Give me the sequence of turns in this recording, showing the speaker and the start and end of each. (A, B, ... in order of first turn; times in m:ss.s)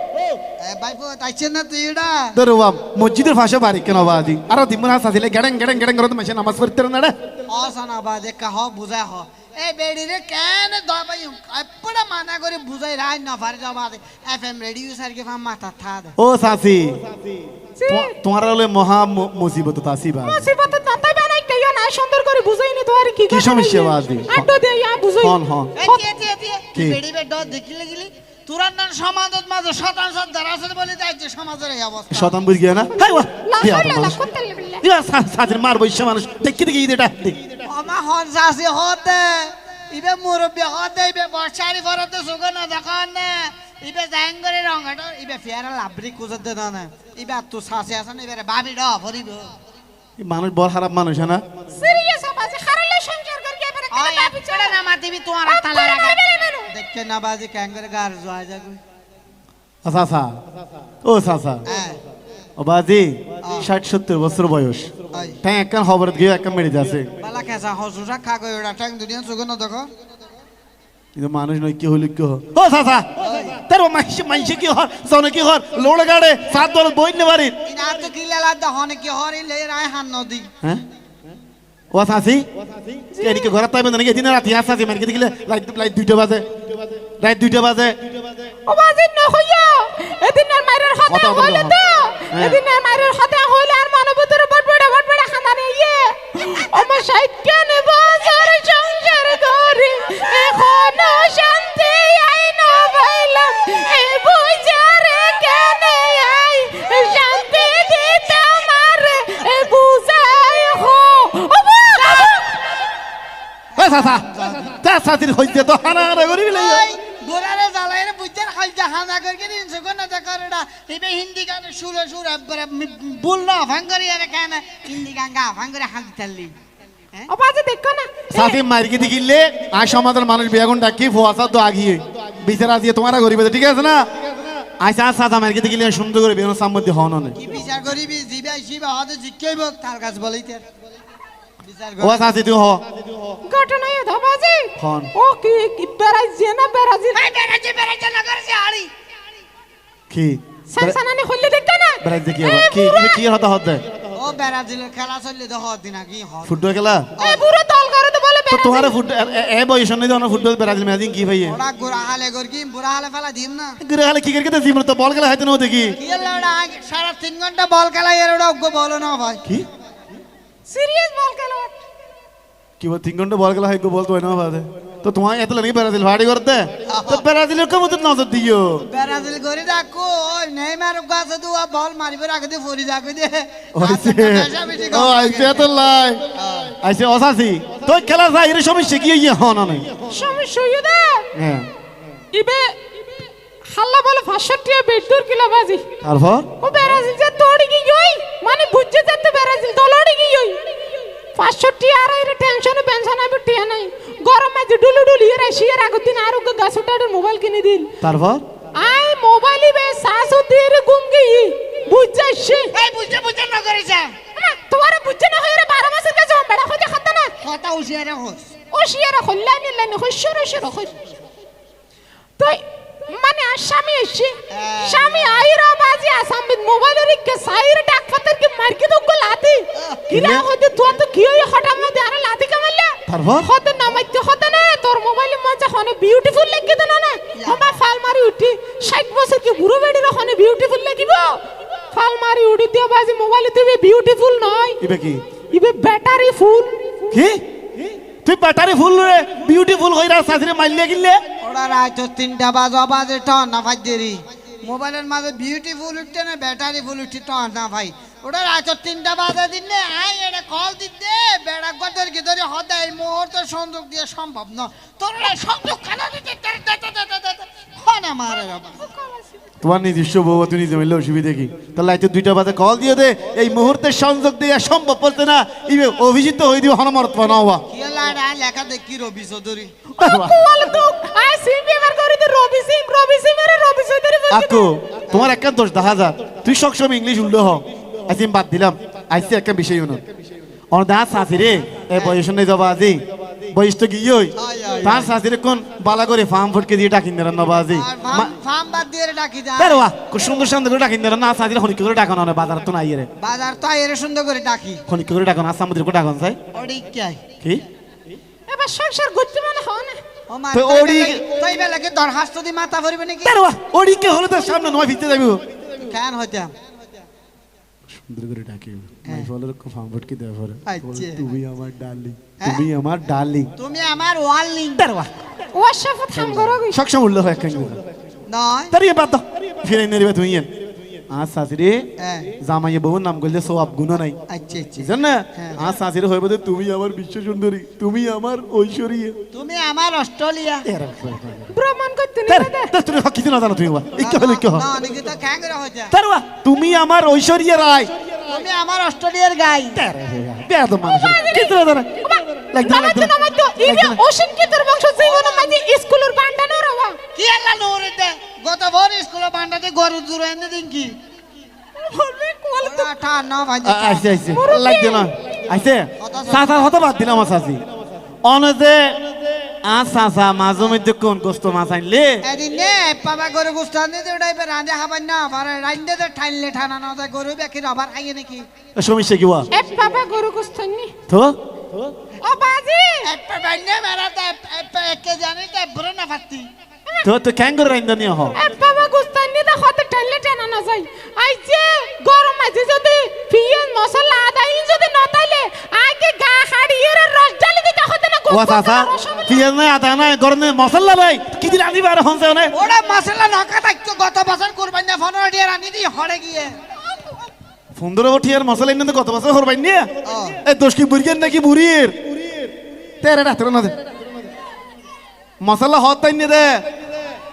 0:00.6-0:02.4 A
0:02.3-0:07.2 B
0:07.5-0:16.1 A
0:16.2-0:17.0 B
0:17.8-0:18.1 C
0:17.9-0:20.4 B
0:20.2-0:26.0 C
0:23.3-0:24.5 B
0:25.2-0:25.7 B
0:25.8-0:32.4 A
0:32.1-0:34.2 B
0:33.0-0:34.8 C
0:34.8-0:37.4 B
0:37.6-0:49.5 A
0:50.2-0:51.4 B
0:51.7-0:54.8 C
0:53.9-0:58.8 A
0:55.4-0:56.7 C
0:59.8-1:00.4 B
1:01.0-1:01.6 B
1:01.6-1:02.0 A
1:02.6-1:07.1 B
1:03.4-1:03.7 A
1:05.1-1:05.4 A
1:07.2-1:09.9 A
1:11.1-1:17.6 B
1:13.2-1:13.6 A
1:17.6-1:20.5 A
1:21.9-1:22.5 B
1:23.1-1:23.5 C
1:23.2-1:26.5 B
1:27.2-1:28.0 B
1:28.7-1:52.4 C
1:31.1-1:31.8 B
1:32.3-1:32.6 B
1:52.0-1:52.7 A
1:53.8-1:54.7 A
1:53.8-1:56.8 B
1:56.5-2:06.5 A
2:07.3-2:08.6 C
2:08.3-2:14.1 B
2:14.8-2:17.4 B
2:17.3-2:20.6 A
2:21.6-2:22.3 A
2:22.0-2:22.8 B
2:23.4-2:27.2 C
2:24.8-2:25.1 B
2:27.1-2:28.9 A
2:30.1-2:31.0 B
2:30.7-2:33.2 C
2:32.0-2:33.8 B
2:34.1-2:36.6 A
2:36.4-2:37.1 B
2:37.2-2:37.4 A
2:37.2-2:39.0 C
2:38.5-2:41.5 B
2:41.4-2:43.8 A
2:43.8-2:46.0 B
2:46.0-2:49.4 A
2:50.7-2:51.7 C
2:52.8-2:58.9 B
2:56.9-2:57.2 A
2:58.8-3:05.6 A
3:03.7-3:06.2 B
3:06.3-3:06.7 A
3:06.8-3:09.9 B
3:10.1-3:11.3 C
3:11.3-3:11.7 B
3:12.3-3:12.8 C
3:13.7-3:15.8 C
3:16.0-3:16.5 B
3:16.6-3:20.6 C
3:21.3-3:27.9 C
3:28.0-3:28.4 B
3:28.7-3:32.7 C
3:32.7-3:34.2 A
3:34.4-3:37.3 C
3:37.4-3:38.5 A
3:38.7-3:41.0 C
3:42.4-4:04.8 C
3:44.5-3:45.5 A
3:49.7-3:50.0 A
3:50.1-3:50.5 B
3:53.1-3:53.5 B
3:57.3-3:57.8 A
4:04.8-4:05.2 B
4:05.5-4:07.1 C
4:07.1-4:07.4 B
4:08.2-4:11.2 B
4:11.4-4:28.9 A
4:28.8-4:29.3 C
4:29.6-4:37.6 B
4:37.7-4:39.7 A
4:40.0-4:40.5 B
4:40.0-4:44.8 C
4:44.3-4:50.0 B
4:50.7-4:58.3 B
4:51.9-4:52.2 A
4:54.3-4:55.1 A
4:57.7-4:59.8 A
4:59.6-5:03.1 B
5:03.2-5:04.8 A
5:04.9-5:06.4 B
5:06.5-5:07.2 A
5:08.5-5:10.0 C
5:10.3-5:13.4 A
5:10.5-5:11.2 B
5:13.2-5:15.4 B
5:15.8-5:16.5 A
5:17.9-5:23.5 B
5:19.0-5:19.3 A
5:20.6-5:21.2 A
5:23.6-5:24.9 A
5:24.8-5:25.1 B
5:25.5-5:26.8 C
5:26.1-5:27.8 B
5:28.3-5:28.7 A
5:28.7-5:30.5 B
5:31.1-5:34.2 B
5:32.0-5:32.3 A
5:34.3-5:35.7 A
5:34.8-5:39.2 B
5:39.3-5:40.6 A
5:40.6-5:41.5 B
5:41.5-5:42.7 C
5:42.3-5:44.6 B
5:44.0-5:45.9 A
5:45.9-5:47.9 B
5:48.2-5:49.8 A
5:49.7-5:51.9 B
5:50.9-5:57.0 C
5:52.5-5:54.0 B
5:55.0-5:55.6 A
5:57.1-6:01.0 A
6:01.8-6:02.9 C
6:02.6-6:04.4 A
6:03.6-6:07.6 B
6:04.3-6:05.1 C
6:06.0-6:06.7 A
6:08.2-6:09.0 B
6:09.6-6:12.2 B
6:12.2-6:18.4 A
6:18.8-6:19.5 B
6:19.5-6:20.9 C
6:21.1-6:21.4 B
6:22.2-6:23.1 C
6:23.0-6:26.5 A
6:27.0-6:28.4 B
6:28.4-6:39.4 C
6:38.3-6:42.5 B
6:42.5-6:46.5 A
6:47.7-6:49.9 B
6:50.0-6:50.4 A
6:50.4-6:52.0 B
6:53.0-6:53.7 B
6:55.4-6:56.7 B